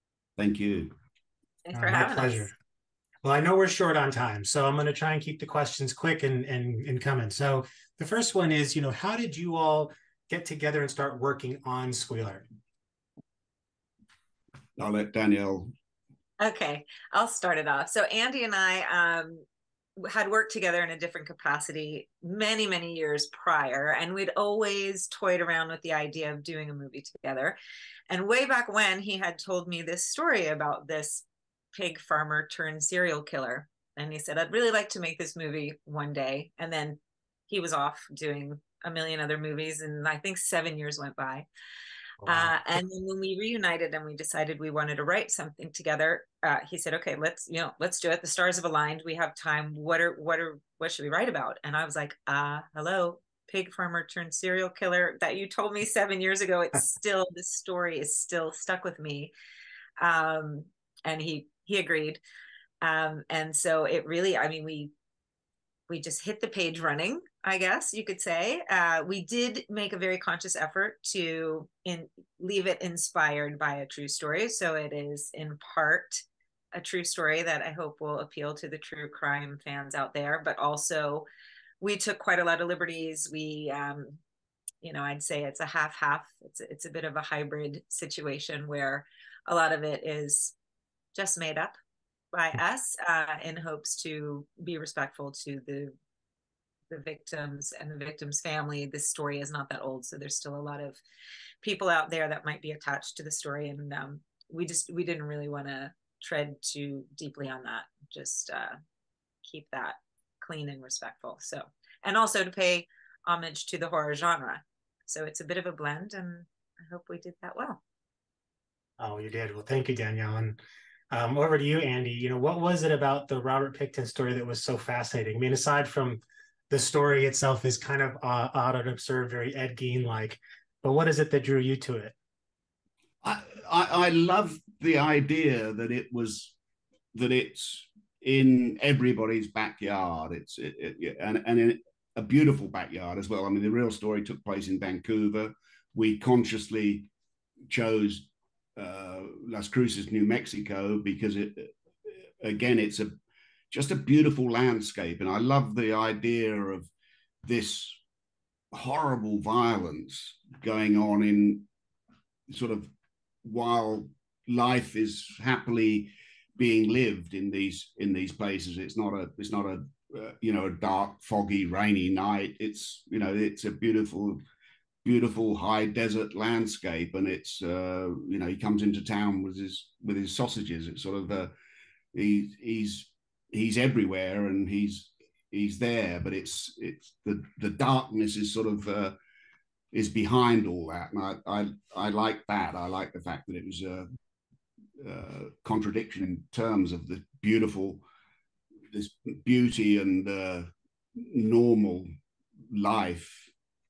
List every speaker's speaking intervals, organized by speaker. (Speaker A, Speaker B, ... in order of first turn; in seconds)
Speaker A: 0.4-0.9, 14.8-15.7, 133.2-136.6, 137.1-147.1, 147.7-153.2, 153.7-156.9, 157.4-158.0, 158.7-161.7, 162.5-162.9, 163.4-174.4, 175.0-181.5, 182.1-189.2, 189.9-194.1, 195.0-198.0, 198.9-202.1, 202.7-203.5
Speaker B: 1.6-2.5, 16.4-19.4, 20.0-27.6, 28.1-41.5, 42.2-59.3, 60.0-62.2, 62.8-64.9, 65.9-81.2, 81.8-84.2, 84.8-90.5, 91.1-91.7, 92.3-95.9, 96.9-101.0, 101.6-108.7, 109.4-117.8
Speaker C: 1.7-2.5, 3.2-12.4, 42.2-42.8, 119.0-120.6, 121.1-132.1